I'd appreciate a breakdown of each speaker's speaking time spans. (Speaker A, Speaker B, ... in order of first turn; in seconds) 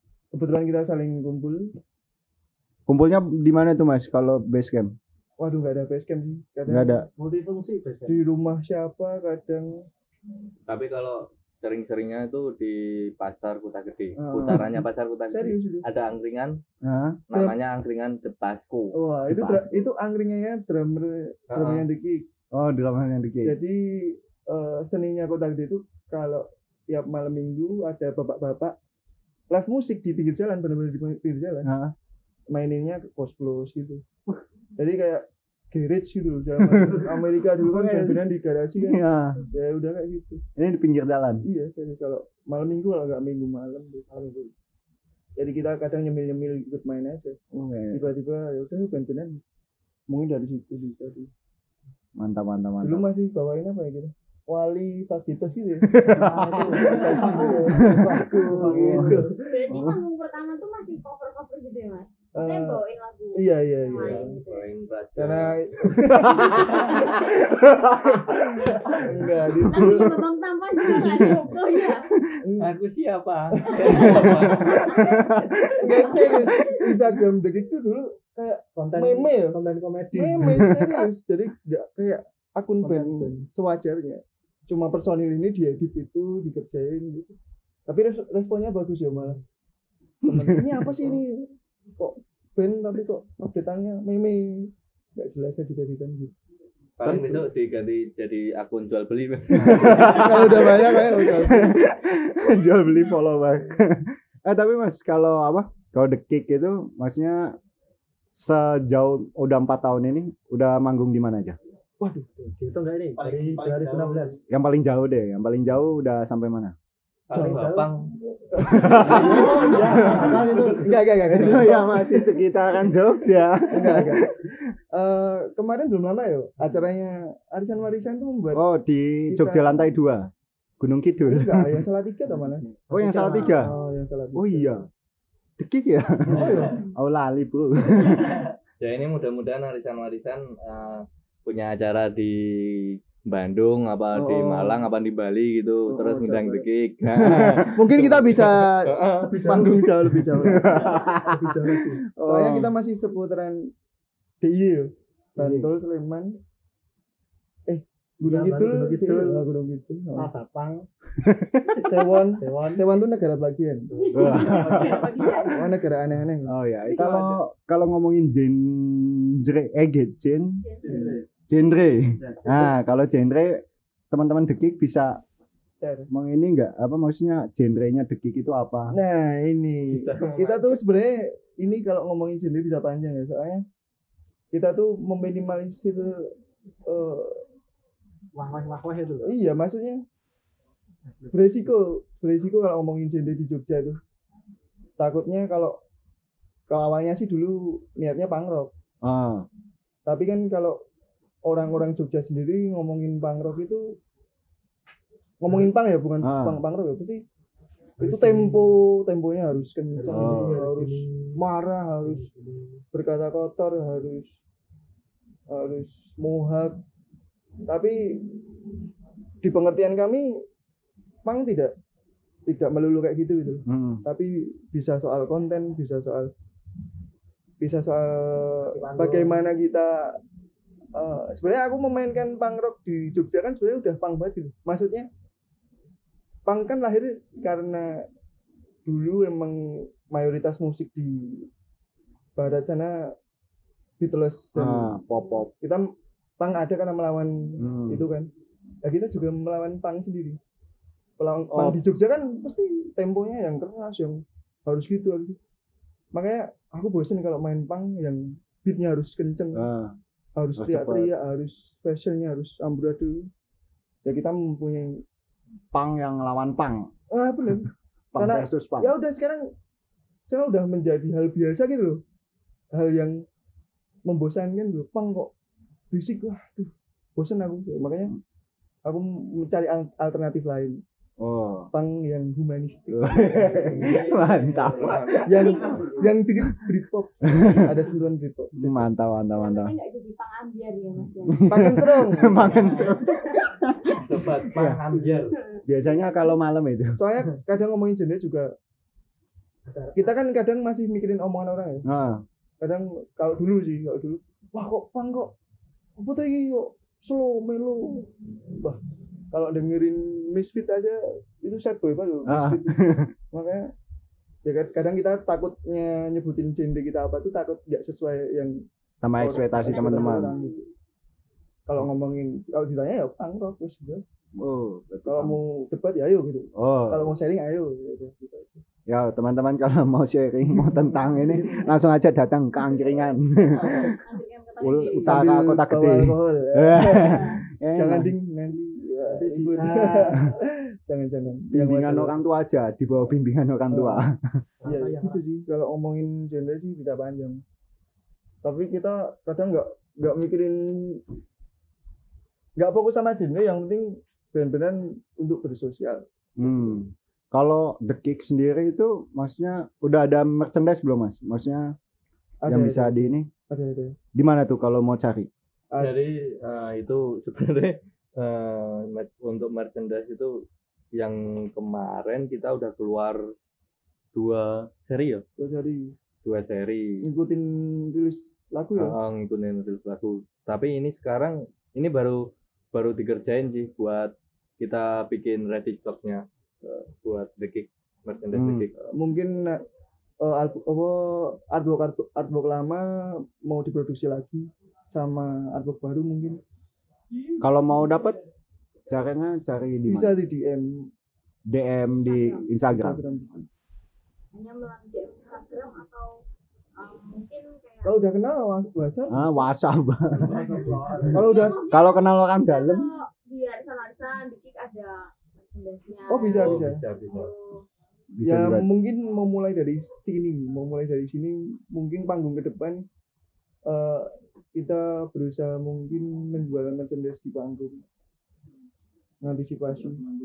Speaker A: 0.3-1.7, 5.4-7.0, 8.1-9.9, 14.2-15.8, 17.3-17.6, 18.9-22.2, 23.4-28.7, 29.5-31.7, 32.5-34.0, 34.8-40.4, 41.4-44.4, 45.4-49.4, 50.1-51.3, 52.8-59.8, 62.3-62.8, 63.3-64.4, 65.2-67.2, 67.9-70.2, 72.4-72.7, 73.5-74.4, 75.8-79.6, 80.1-87.3, 87.9-89.4, 90.2-96.3, 97.0-97.5, 99.8-101.8, 112.0-112.3, 117.3-122.4, 123.7-124.3, 124.9-128.6, 129.3-129.9, 131.2-134.8, 136.2-136.8, 144.1-144.8, 145.9-146.6, 147.3-153.7, 154.4-156.4, 157.7-160.3, 161.8-163.9, 165.4-167.4, 170.8-171.2, 175.8-176.1, 178.9-183.6, 184.5-186.3, 186.8-187.4, 189.2-190.0, 191.3-194.0, 195.0-195.8, 196.7-198.7, 200.1-200.8, 201.4-203.9, 205.4-207.2, 208.0-212.3, 212.9-214.3, 215.5-216.8, 217.7-218.2, 219.4-220.3, 221.2-221.7, 222.5-226.3, 227.6-230.2, 230.9-235.1, 236.4-238.0, 238.8-241.5, 242.4-243.1, 244.0-244.9, 246.4-248.3, 248.8-250.4, 251.2-255.4, 256.1-259.6, 260.4-263.3, 264.0-265.0, 267.1-269.4, 270.3-272.0, 272.7-273.2, 274.1-275.3, 275.9-278.1, 278.8-280.8, 281.7-283.9, 285.2-288.9, 291.4-292.6, 296.9-298.5, 299.9-301.8, 302.6-305.3, 306.0-308.8, 309.3-313.7, 314.4-318.6, 319.2-320.6, 321.7-324.0, 325.1-328.6, 330.5-331.6, 335.0-342.2, 343.7-344.0, 344.6-347.4, 348.4-351.0, 352.6-356.6, 362.4-363.9, 375.4-375.9, 377.0-378.9, 388.9-389.6, 390.2-396.4, 399.9-400.7, 402.6-403.4, 407.8-409.5, 411.1-411.6, 416.1-416.8, 418.2-422.8, 423.7-427.8, 429.2-430.0
Speaker B: 2.9-4.9, 6.7-7.0, 14.5-14.7, 16.8-17.2, 19.3-19.9, 22.5-23.6, 31.6-31.9, 36.6-38.2, 38.8-39.5, 40.5-41.4, 47.5-48.0, 52.1-53.1, 55.9-57.1, 57.7-60.0, 66.2-68.8, 69.6-70.0, 70.8-72.3, 73.8-77.0, 80.5-80.9, 90.3-90.5, 99.5-107.5, 108.3-111.6, 114.5-116.7, 118.6-124.7, 128.5-131.9, 132.9-133.7, 134.3-134.9, 135.6-138.5, 147.1-147.9, 149.4-152.7, 161.2-161.8, 164.1-165.4, 166.5-170.6, 171.5-175.2, 176.1-178.9, 199.0-199.5, 206.2-206.6, 210.1-210.6, 223.7-224.0, 244.6-245.5, 247.6-248.0, 251.5-251.8, 259.5-259.9, 260.6-261.1, 265.7-266.9, 268.1-268.9, 281.2-281.7, 282.9-285.4, 287.3-287.8, 288.6-289.7, 291.2-294.8, 295.6-297.1, 301.8-302.2, 312.2-313.1, 319.0-320.3, 324.4-325.4, 326.5-327.1, 328.9-333.9, 334.6-338.1, 341.5-344.4, 356.4-361.8, 362.5-363.3, 364.1-365.3, 388.3-388.7, 397.4-398.2, 398.9-400.1, 401.5-403.0, 409.1-412.9, 418.2-418.6
Speaker C: 7.1-8.2, 44.2-44.5, 56.1-59.4, 78.8-80.6, 82.8-83.4, 112.3-114.4, 117.3-117.9, 118.9-120.9, 132.4-133.6, 155.4-155.6, 158.2-159.4, 160.2-160.9, 162.2-163.1, 163.9-165.0, 170.8-171.2, 172.2-172.6, 188.3-189.3, 208.0-208.7, 209.9-211.4, 212.0-212.8, 228.6-229.4, 299.7-299.9, 339.0-340.2, 344.6-345.2, 410.1-411.3
Speaker D: 10.7-16.6, 17.3-18.9, 21.5-21.9, 64.0-65.5, 72.6-75.0, 97.0-100.6, 113.2-114.2, 117.3-118.1, 138.8-149.3, 179.9-180.8, 283.8-285.8, 294.0-295.4, 365.8-370.4, 370.9-373.2, 374.1-375.2, 376.2-377.0, 378.8-386.2, 387.0-388.7, 416.4-417.3
Speaker E: 59.4-64.7, 66.5-67.4, 69.6-72.1, 73.9-74.2, 74.8-75.3, 75.9-76.7, 163.9-165.7, 170.6-171.2, 285.3-286.1, 289.3-291.5, 292.8-293.4, 319.6-320.5, 333.7-335.2, 337.0-337.3, 402.0-402.5, 404.3-406.2, 406.8-408.1, 411.1-417.6